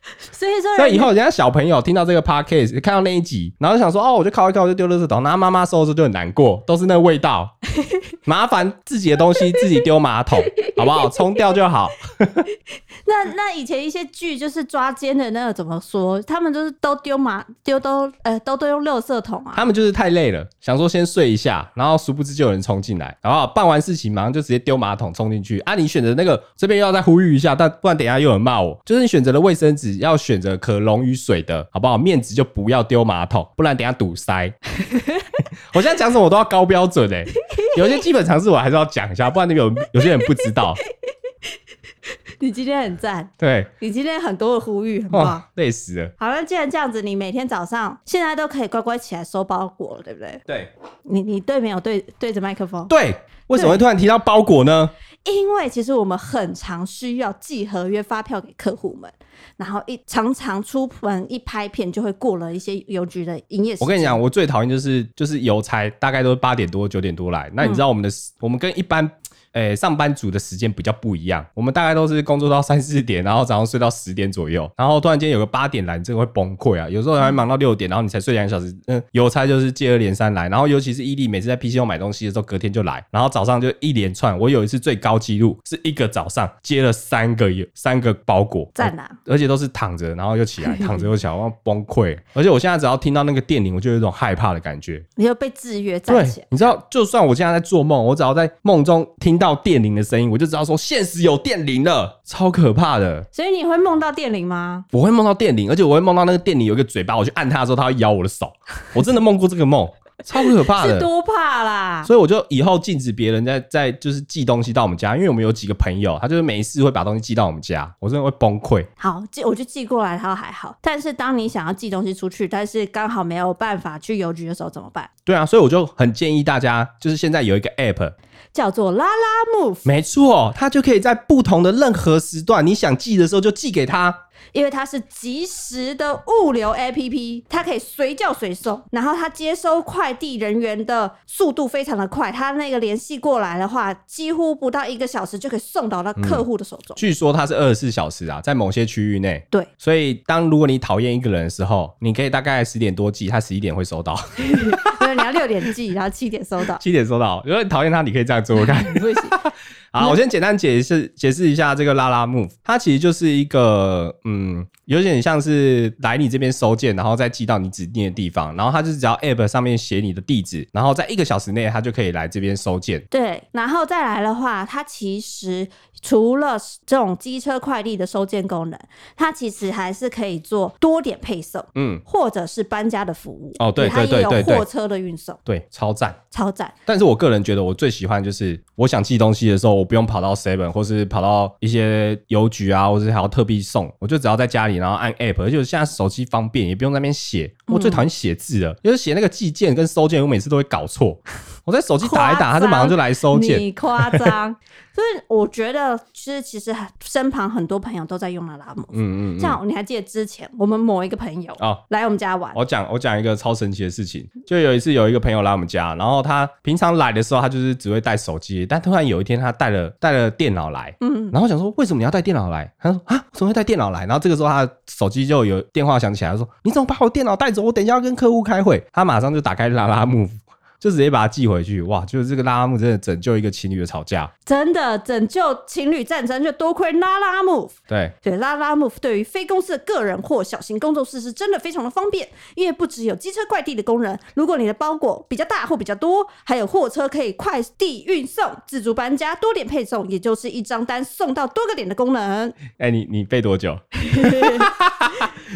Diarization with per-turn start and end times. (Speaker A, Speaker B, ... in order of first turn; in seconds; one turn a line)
Speaker A: 0.2-1.1
Speaker B: 0.8-7.5
Speaker B: 8.2-12.4
Speaker A: 9.3-9.6
Speaker A: 10.6-11.3
Speaker A: 13.0-19.7
Speaker B: 19.5-34.6
Speaker A: 34.8-35.4
Speaker B: 35.7-40.8
Speaker A: 37.5-38.0
Speaker A: 40.0-40.9
Speaker A: 42.4-45.4
Speaker B: 43.4-43.7
Speaker B: 45.1-46.1
Speaker A: 46.2-50.4
Speaker A: 51.1-52.9
Speaker B: 52.9-54.9
Speaker A: 53.5-53.8
Speaker A: 55.2-64.2
Speaker B: 63.8-95.1
Speaker A: 88.8-89.2
Speaker A: 90.6-91.1
Speaker A: 95.2-96.5
Speaker B: 96.1-103.3
Speaker A: 103.3-104.9
Speaker B: 104.9-111.1
Speaker A: 110.4-112.1
Speaker B: 112.0-118.9
Speaker A: 119.0-125.1
Speaker B: 125.2-128.1
Speaker A: 128.5-129.9
Speaker B: 129.8-134.2
Speaker A: 134.5-147.0
Speaker B: 146.2-146.4
Speaker B: 147.0-155.1
Speaker A: 154.4-156.8
Speaker B: 156.8-173.1
Speaker A: 158.6-159.4
Speaker A: 173.1-185.4
Speaker B: 181.7-182.0
Speaker B: 183.6-184.7
Speaker B: 185.4-186.2
Speaker A: 186.3-186.7
Speaker B: 186.9-204.3
Speaker A: 197.7-198.1
Speaker A: 202.0-212.6
Speaker B: 208.9-209.6
Speaker B: 212.5-234.3
Speaker A: 221.0-221.3
Speaker A: 234.4-252.6
Speaker B: 252.8-255.4
Speaker A: 254.0-254.7